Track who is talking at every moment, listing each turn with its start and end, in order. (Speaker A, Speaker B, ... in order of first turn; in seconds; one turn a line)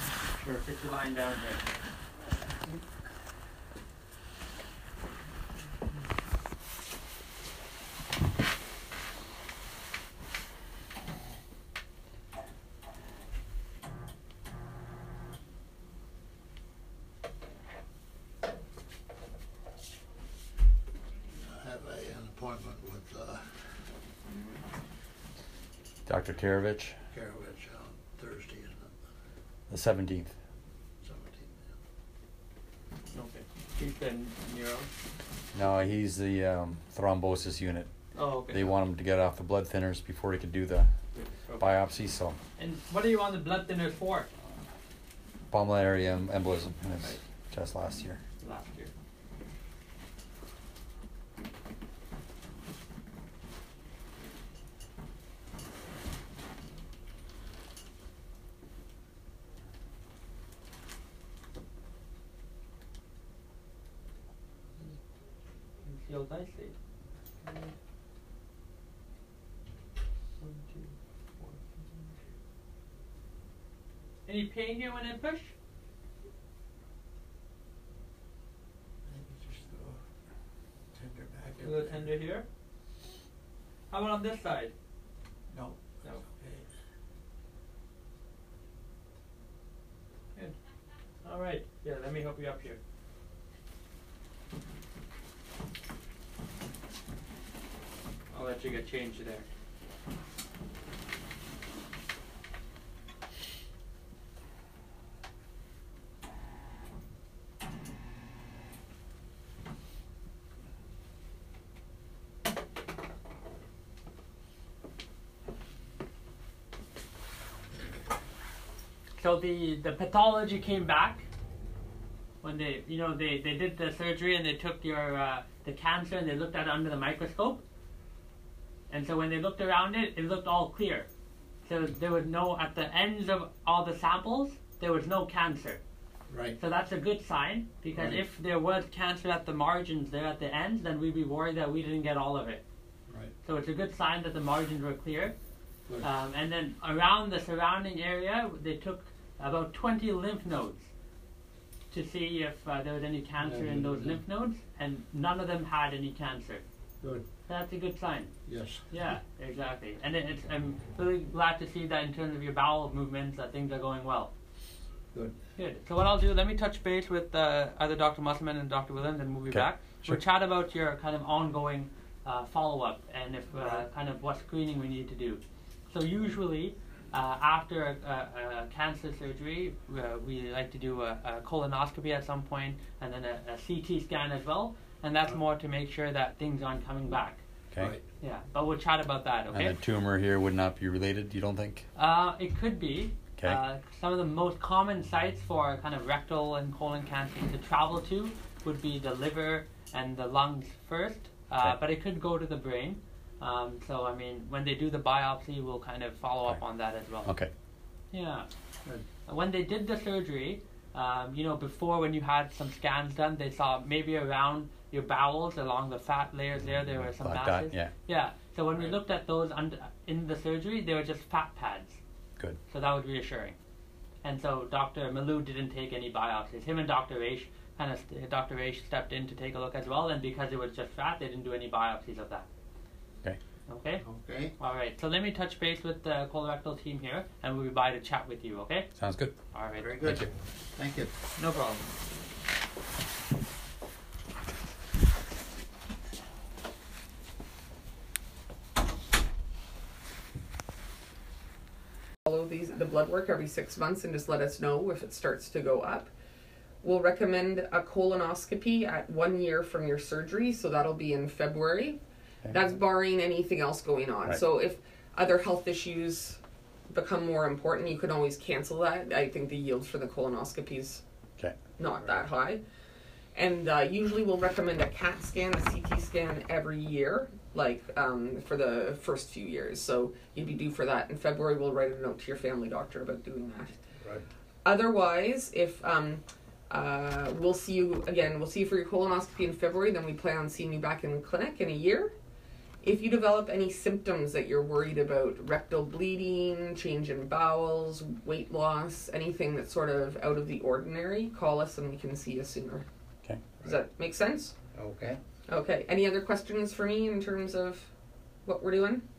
Speaker A: 0.4-1.6
Speaker B: 21.3-23.6
Speaker C: 26.1-27.0
Speaker B: 27.1-28.9
Speaker C: 29.7-30.4
Speaker B: 31.0-31.8
Speaker A: 33.1-34.9
Speaker C: 35.5-37.9
Speaker A: 38.1-38.7
Speaker C: 38.5-40.9
Speaker A: 41.1-41.8
Speaker C: 41.6-42.4
Speaker A: 42.6-44.3
Speaker C: 45.5-48.2
Speaker A: 48.4-48.9
Speaker A: 65.8-66.8
Speaker A: 67.4-67.7
Speaker A: 70.4-72.1
Speaker A: 74.3-75.5
Speaker B: 79.1-80.0
Speaker B: 80.9-82.2
Speaker A: 81.6-82.5
Speaker A: 83.9-84.7
Speaker B: 85.5-86.7
Speaker A: 91.2-92.8
Speaker A: 98.3-99.5
Speaker A: 119.2-121.2
Speaker A: 122.4-127.6
Speaker A: 128.9-131.1
Speaker A: 131.7-135.8
Speaker B: 136.3-136.6
Speaker A: 136.6-142.6
Speaker B: 137.9-138.2
Speaker A: 143.4-145.3
Speaker A: 146.0-150.9
Speaker A: 151.9-156.6
Speaker B: 153.4-154.2
Speaker A: 157.5-158.3
Speaker B: 158.5-158.9
Speaker A: 158.9-164.3
Speaker A: 165.6-187.4
Speaker C: 169.5-170.2
Speaker C: 187.7-188.0
Speaker B: 187.8-188.0
Speaker A: 188.2-189.8
Speaker C: 189.5-191.9
Speaker A: 191.9-207.3
Speaker C: 207.2-207.5
Speaker A: 208.1-208.5
Speaker A: 209.3-222.0
Speaker C: 216.9-217.9
Speaker A: 222.7-223.6
Speaker A: 224.2-232.5
Speaker A: 233.7-234.0
Speaker B: 234.0-234.5
Speaker A: 234.6-238.9
Speaker C: 239.0-239.4
Speaker A: 239.5-240.0
Speaker B: 239.8-241.1
Speaker C: 240.0-240.3
Speaker A: 241.4-241.9
Speaker D: 252.3-256.1
Speaker D: 256.8-262.0
Speaker D: 262.5-271.0
Speaker D: 271.8-272.6
Speaker B: 271.9-272.2
Speaker D: 273.4-283.8
Speaker B: 284.0-284.3
Speaker D: 284.6-292.1
Speaker D: 292.8-302.9
Speaker C: 303.2-303.5
Speaker D: 303.6-304.6
Speaker B: 304.7-305.2
Speaker D: 305.5-307.9
Speaker D: 308.4-309.0